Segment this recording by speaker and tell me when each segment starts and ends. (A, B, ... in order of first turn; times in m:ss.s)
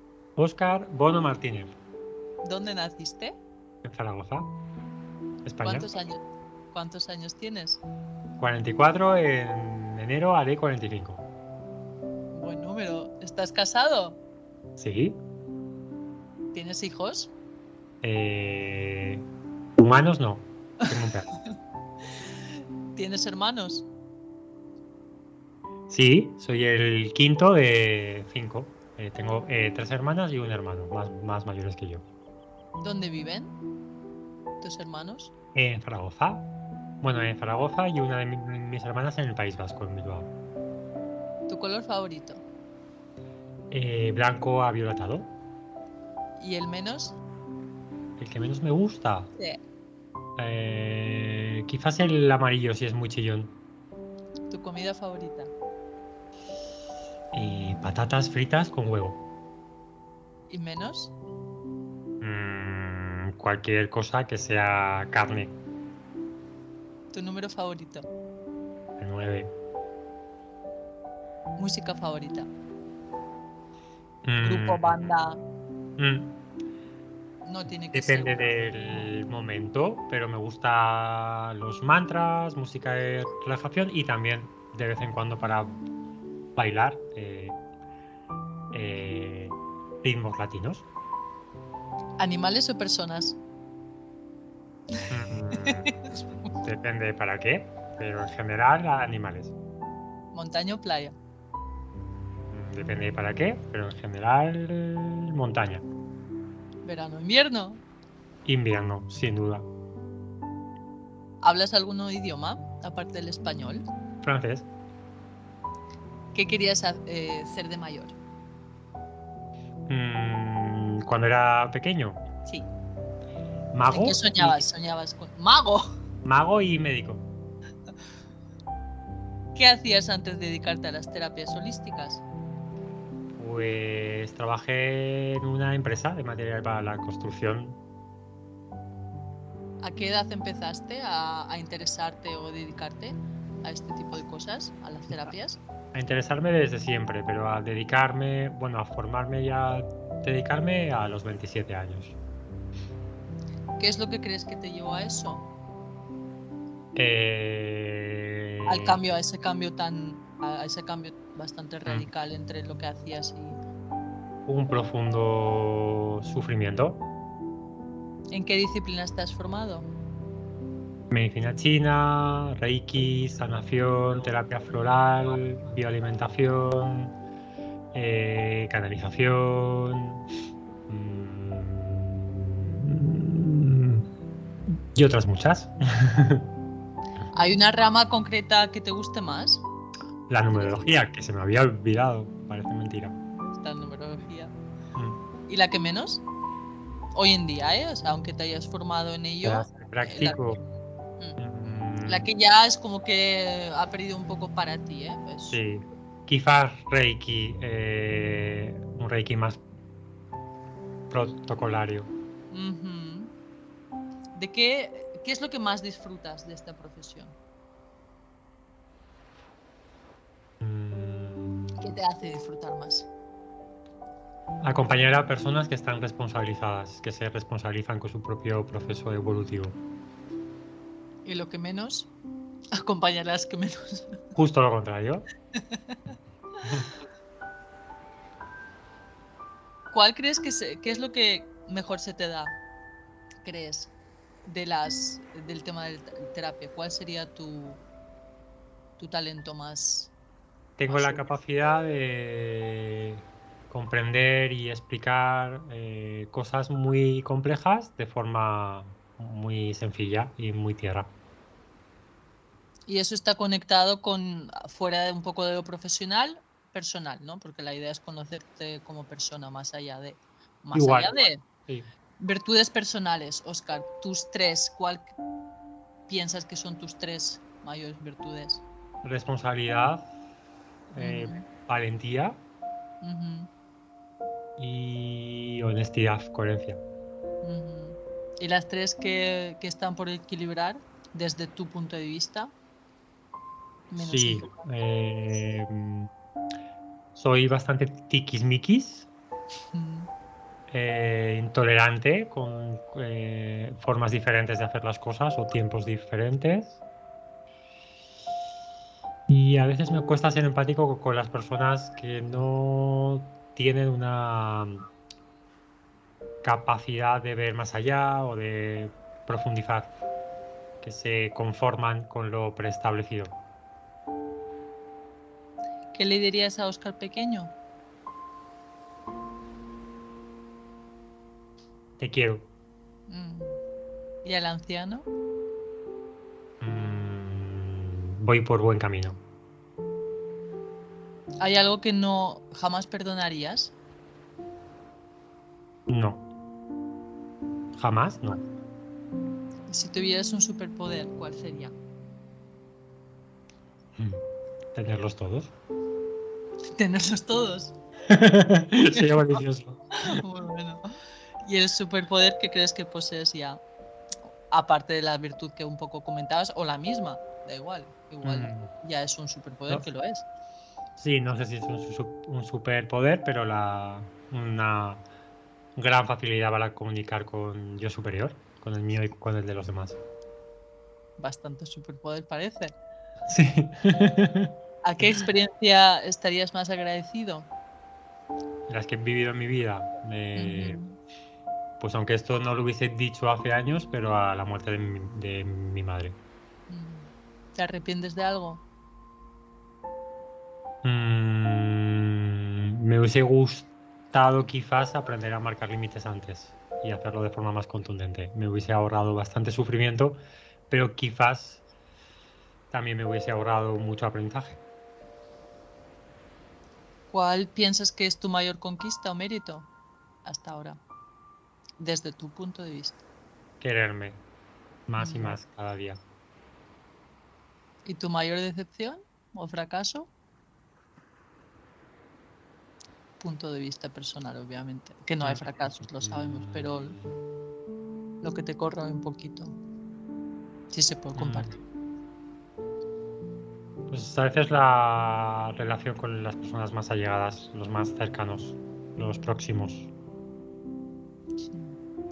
0:00.4-0:01.8 A
0:02.4-0:03.4 B
0:03.8-0:04.5 A
0:05.4-0:05.9 A
0:05.6-0:07.8 B
0:08.4-0:11.3 A
0:12.3-0:14.2 B
0:14.8-0:15.2 A
0:16.5-0:17.3 B
0:18.0-0:21.3 A
0:23.0-0:23.9 B
0:25.9-0:32.1 A
0:32.8-0:33.6 B
0:34.6-0:35.3 B
0:35.6-0:36.5 A
0:37.0-0:40.3 A
0:41.5-0:42.4 B
0:43.7-0:45.3 A
0:46.4-0:47.2 B
0:48.2-0:49.3 A
0:50.4-0:53.6 A
0:54.5-0:55.5 B
0:57.3-0:59.2 A
1:00.5-1:01.1 B
1:02.2-1:05.6 A
1:07.1-1:08.1 B
1:09.0-1:09.5 A
1:11.6-1:12.5 B
1:14.2-1:15.1 A
1:14.4-1:15.4 B
1:16.0-1:16.4 A
1:17.4-1:19.1 B
1:17.9-1:25.8 A
1:26.6-1:27.6 A
1:28.7-1:30.9 A
1:32.2-1:33.4 B
1:35.1-1:35.9 A
1:35.6-1:36.5 B
1:36.6-1:39.6 A
1:40.3-1:41.2 B
1:42.5-1:45.8 A
1:46.8-1:47.8 B
1:48.4-1:49.7 A
1:51.4-1:53.8 B
1:54.2-1:54.7 A
1:56.3-1:58.2 B
1:59.9-2:02.2 A
2:02.4-2:02.7 B
2:03.7-2:04.7 A
2:03.9-2:05.9 B
2:06.2-2:07.3 A
2:09.6-2:12.2 B
2:13.4-2:17.8 A
2:19.8-2:25.6 B
2:25.9-2:32.2 A
2:33.8-2:35.5 B
2:37.0-2:39.0 A
2:38.7-2:43.6 B
2:44.5-2:47.0 A
2:48.3-2:49.9 B
2:51.1-2:57.2 A
2:57.9-3:00.2 A
3:00.9-3:04.0 A
3:04.9-3:06.5 A
3:07.3-3:09.6 B
3:10.3-3:13.2 A
3:10.5-3:10.9 B
3:13.4-3:14.5 B
3:15.5-3:16.2 B
3:17.2-3:20.6 B
3:19.4-3:20.6 A
3:21.4-3:22.3 A
3:22.1-3:25.6 B
3:25.5-3:29.6 A
3:31.1-3:32.1 A
3:32.5-3:33.3 B
3:34.4-3:37.4 B
3:40.6-3:41.9 A
3:41.8-3:43.1 B
3:44.6-3:49.8 A
3:51.3-3:52.1 B
3:52.8-3:54.2 B
3:54.4-3:55.3 A
3:55.6-3:56.1 B
3:56.6-3:56.9 A
3:59.9-4:02.6 B
4:03.4-4:03.9 B
4:04.5-4:07.8 B
4:09.0-4:10.1 B
4:10.8-4:21.1 A
4:10.9-4:11.3 B
4:22.9-4:31.4 B
4:30.7-4:31.9 A
4:32.2-4:35.1 B
4:36.1-4:38.7 B
4:39.0-4:40.1 A
4:40.9-4:42.4 A
4:41.0-4:41.4 B
4:43.0-4:43.5 B
4:44.6-4:46.8 A
4:47.4-4:52.5 B
4:53.9-4:54.6 B
4:54.0-4:56.1 A
4:57.2-4:59.1 A
4:59.7-5:00.1 B
5:00.7-5:06.8 A
5:09.3-5:14.9 A
5:16.4-5:19.9 A
5:20.8-5:23.4 A
5:25.9-5:27.5 B
5:32.0-5:32.5 A
5:33.1-5:33.6 B
5:34.2-5:35.1 B
5:36.6-5:39.2 A
5:41.4-5:43.8 B
5:45.9-5:46.3 A
5:47.8-5:48.4 A
5:49.7-5:51.8 B
5:54.0-5:54.2 A
5:54.8-5:55.5 A
5:56.8-5:57.8 B
5:58.1-6:00.2 A
5:58.9-5:59.4 B
6:00.1-6:00.8 B
6:01.4-6:03.6 B
6:04.5-6:10.2 B
6:08.2-6:08.7 A
6:11.0-6:15.0 A
6:15.8-6:20.0 A
6:21.2-6:22.7 B
6:23.3-6:25.2 A
6:24.8-6:27.5 B
6:28.7-6:30.8 A
6:30.4-6:31.0 B
6:31.8-6:36.2 A
6:36.7-6:38.6 B
6:40.8-6:51.6 A
6:52.7-6:54.6 A
6:57.1-6:59.7 B
7:00.2-7:00.8 B
7:01.8-7:03.0 B
7:03.6-7:04.2 A
7:04.9-7:06.0 A
7:05.0-7:05.4 B
7:07.8-7:10.1 B
7:13.2-7:17.0 B
7:15.2-7:17.1 A
7:18.2-7:19.6 B
7:20.7-7:21.6 B
7:21.2-7:21.5 A
7:23.9-7:29.9 A
7:31.4-7:31.8 B